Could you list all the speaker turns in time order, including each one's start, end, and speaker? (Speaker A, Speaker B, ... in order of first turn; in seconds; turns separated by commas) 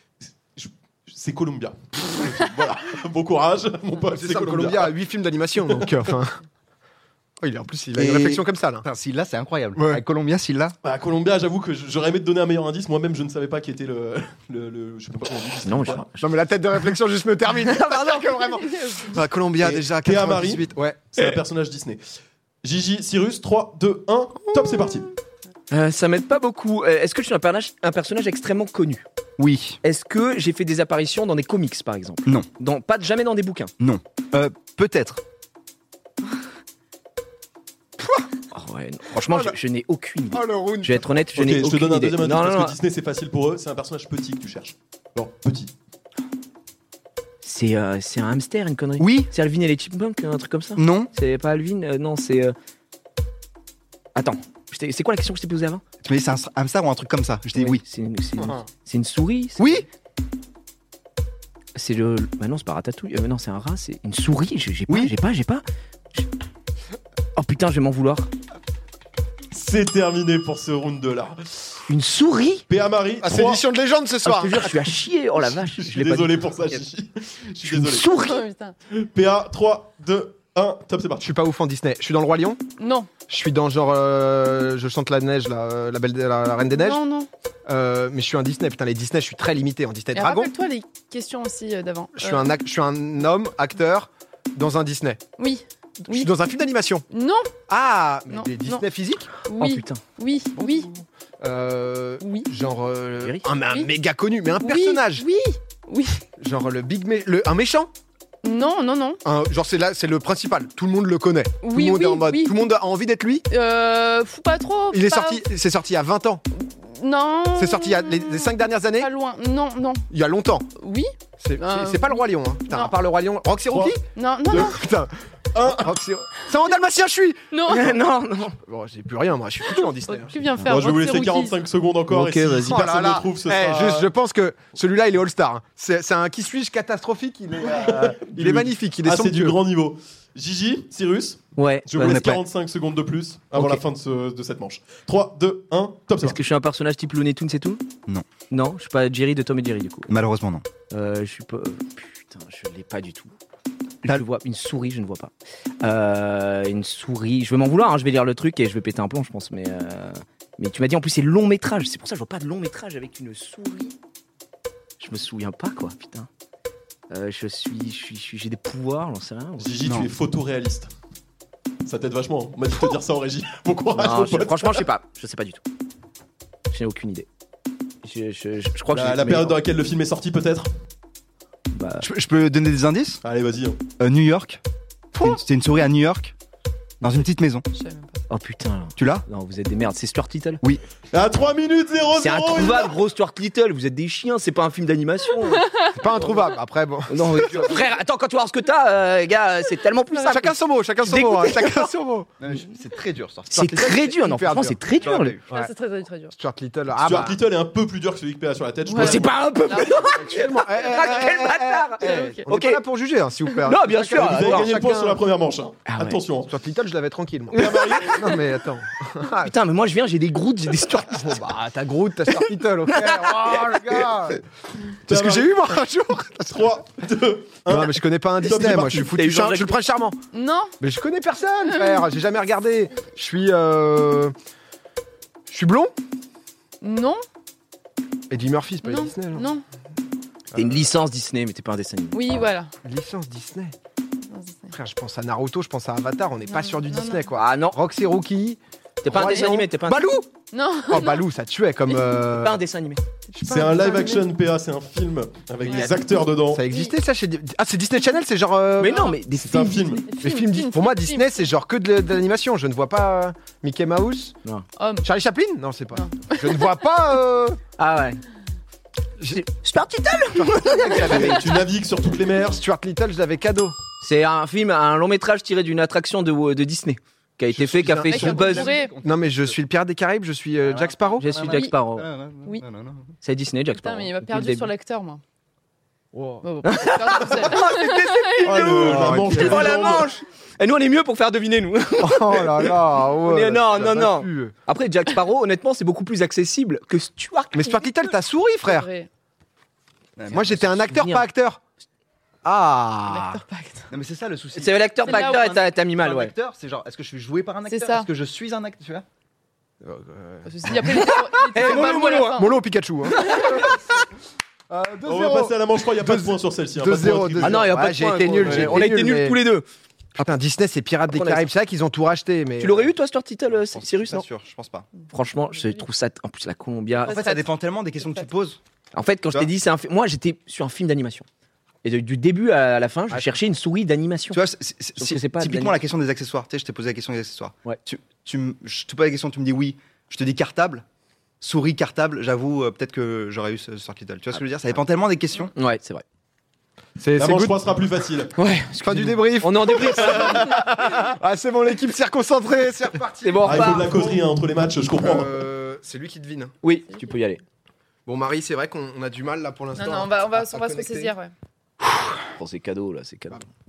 Speaker A: 0.5-4.9, Speaker B: 4.1-6.4, Speaker A: 5.7-5.9, Speaker B: 7.4-8.8, Speaker C: 8.0-10.8, Speaker B: 9.7-10.0, Speaker A: 10.8-16.1, Speaker D: 15.6-16.1, Speaker B: 16.2-21.2, Speaker D: 17.6-18.4, Speaker E: 18.6-19.1, Speaker A: 19.6-22.0, Speaker A: 22.6-25.1, Speaker D: 25.7-29.0, Speaker C: 29.4-29.8, Speaker D: 29.8-33.7, Speaker C: 33.8-35.2, Speaker D: 38.5-42.7, Speaker B: 39.2-39.6, Speaker B: 40.3-41.1, Speaker A: 41.3-45.7, Speaker D: 47.4-52.5, Speaker C: 49.0-49.3, Speaker C: 50.8-51.1, Speaker D: 54.1-55.8, Speaker C: 56.0-57.8, Speaker D: 57.5-59.9, Speaker B: 58.4-58.7, Speaker C: 59.6-59.8, Speaker D: 61.7-65.6, Speaker C: 64.9-65.1, Speaker D: 67.3-68.3, Speaker A: 69.5-71.8, Speaker D: 71.9-72.6, Speaker A: 72.7-73.6, Speaker B: 73.2-74.9, Speaker D: 74.2-76.5, Speaker A: 75.5-78.1, Speaker D: 77.6-78.4, Speaker E: 78.0-78.7, Speaker A: 78.9-81.3, Speaker B: 81.2-82.6, Speaker E: 82.8-83.1, Speaker B: 83.3-87.0, Speaker E: 86.7-87.3, Speaker B: 87.7-90.5, Speaker E: 90.1-92.5, Speaker B: 92.2-95.2, Speaker E: 95.4-96.3, Speaker B: 96.0-97.0, Speaker E: 97.1-97.5, Speaker B: 97.7-99.3, Speaker E: 98.3-98.8, Speaker E: 99.5-100.9, Speaker D: 99.5-100.0, Speaker B: 100.5-105.2, Speaker E: 102.2-102.5, Speaker E: 104.6-106.2, Speaker B: 106.4-107.9, Speaker E: 108.4-109.2, Speaker B: 109.2-113.4, Speaker E: 111.6-112.6, Speaker E: 113.5-115.4, Speaker B: 114.9-116.4, Speaker E: 116.6-120.0, Speaker B: 117.5-119.1, Speaker B: 120.1-120.7, Speaker E: 120.8-122.9, Speaker B: 121.4-127.6, Speaker A: 123.7-124.0, Speaker E: 124.1-124.8, Speaker A: 125.5-125.9, Speaker E: 127.5-127.9, Speaker D: 127.7-128.6, Speaker B: 128.6-130.4, Speaker E: 130.1-131.6, Speaker A: 130.6-134.1, Speaker D: 132.1-132.8, Speaker B: 132.6-139.6, Speaker A: 137.7-146.4, Speaker D: 141.6-142.2, Speaker C: 142.0-142.4, Speaker D: 143.5-143.8, Speaker D: 146.2-147.8, Speaker D: 148.5-150.1, Speaker C: 150.1-150.6, Speaker D: 150.9-153.3, Speaker D: 154.1-163.9, Speaker D: 165.0-166.3, Speaker D: 167.1-169.7, Speaker A: 169.6-170.9, Speaker C: 169.8-170.1, Speaker A: 171.8-174.8, Speaker D: 173.9-175.6, Speaker D: 176.7-177.3, Speaker D: 178.0-179.6, Speaker A: 178.9-180.7, Speaker D: 181.7-182.1, Speaker C: 182.0-183.2, Speaker A: 183.2-183.8, Speaker C: 184.0-184.6, Speaker B: 185.1-185.4, Speaker C: 185.2-186.3, Speaker C: 187.0-187.7, Speaker E: 187.7-188.2, Speaker D: 188.3-190.6, Speaker C: 189.0-189.2, Speaker A: 191.1-192.9, Speaker D: 192.2-195.7, Speaker E: 195.5-196.0, Speaker B: 195.9-197.7, Speaker D: 197.1-201.9, Speaker C: 197.5-197.8, Speaker B: 200.2-202.3, Speaker C: 202.4-203.5, Speaker B: 203.5-204.8, Speaker D: 203.5-205.4, Speaker C: 205.0-205.5, Speaker E: 205.5-206.3, Speaker B: 206.3-207.4, Speaker A: 207.0-209.3, Speaker E: 208.9-210.1, Speaker D: 208.9-212.8, Speaker B: 210.1-215.2, Speaker E: 212.0-212.4, Speaker D: 213.6-214.8, Speaker A: 214.1-216.5, Speaker D: 215.9-216.2, Speaker B: 216.4-219.5, Speaker A: 217.5-218.3, Speaker D: 217.5-218.1, Speaker D: 219.4-221.4, Speaker B: 221.0-224.4, Speaker D: 222.9-224.1, Speaker A: 225.1-225.6, Speaker B: 225.1-226.7, Speaker A: 226.5-229.1, Speaker B: 227.7-230.2, Speaker D: 228.7-229.8, Speaker E: 230.3-230.7, Speaker B: 230.8-234.3, Speaker B: 235.5-235.9, Speaker E: 236.8-237.2, Speaker B: 238.3-239.5, Speaker E: 238.8-239.6, Speaker D: 240.5-242.2, Speaker E: 242.1-242.7, Speaker B: 242.8-243.7, Speaker E: 244.3-244.7, Speaker B: 244.7-250.2, Speaker E: 246.5-247.3, Speaker D: 247.3-247.8, Speaker D: 249.0-250.1, Speaker E: 250.5-251.2, Speaker B: 250.9-252.6, Speaker D: 252.3-253.0, Speaker E: 253.3-254.2, Speaker A: 253.4-256.6, Speaker B: 256.5-259.2, Speaker D: 258.8-260.0, Speaker A: 259.4-260.1, Speaker E: 260.1-261.2, Speaker B: 260.2-264.4, Speaker E: 264.8-265.1, Speaker B: 265.0-267.6, Speaker E: 265.9-266.7, Speaker D: 267.8-268.2, Speaker D: 269.2-271.4, Speaker B: 270.3-271.5, Speaker A: 271.0-272.6, Speaker B: 272.4-273.8, Speaker D: 274.0-278.7, Speaker B: 277.5-281.3, Speaker C: 278.0-279.2, Speaker E: 278.1-278.9, Speaker C: 280.6-283.1, Speaker D: 281.2-282.1, Speaker E: 281.5-281.8, Speaker D: 283.2-284.7, Speaker E: 283.7-285.2, Speaker E: 286.4-288.6, Speaker D: 286.6-297.8, Speaker A: 288.4-290.1, Speaker B: 288.7-289.8, Speaker B: 292.0-294.5, Speaker B: 297.5-298.9, Speaker E: 298.6-299.1, Speaker C: 300.2-300.7, Speaker D: 300.3-301.2, Speaker B: 300.3-301.6, Speaker B: 302.4-303.4, Speaker E: 303.1-303.9, Speaker C: 303.9-309.1, Speaker D: 304.5-306.3, Speaker E: 305.0-305.5, Speaker E: 307.6-308.1, Speaker B: 309.8-311.1, Speaker E: 310.4-312.5, Speaker D: 311.4-312.5, Speaker B: 312.3-313.8, Speaker D: 313.1-313.7, Speaker E: 313.3-313.6, Speaker B: 314.7-319.4, Speaker A: 315.0-317.8, Speaker D: 317.4-319.6, Speaker A: 318.4-318.8, Speaker B: 320.1-322.9, Speaker D: 321.1-321.5, Speaker D: 322.6-324.3, Speaker C: 323.5-324.9, Speaker D: 325.1-327.2, Speaker C: 327.1-328.6, Speaker E: 327.1-327.4, Speaker E: 328.0-328.2, Speaker D: 328.9-331.3, Speaker D: 331.8-334.4, Speaker C: 334.3-340.8, Speaker D: 335.0-335.8, Speaker C: 341.4-345.5, Speaker D: 345.5-346.0, Speaker B: 347.0-347.6, Speaker A: 347.1-348.3, Speaker D: 348.4-350.5, Speaker B: 348.8-354.2, Speaker D: 353.2-353.9, Speaker A: 353.4-355.4, Speaker B: 355.0-356.5, Speaker D: 356.6-357.4, Speaker B: 358.1-361.1, Speaker E: 359.8-361.3, Speaker D: 362.3-363.5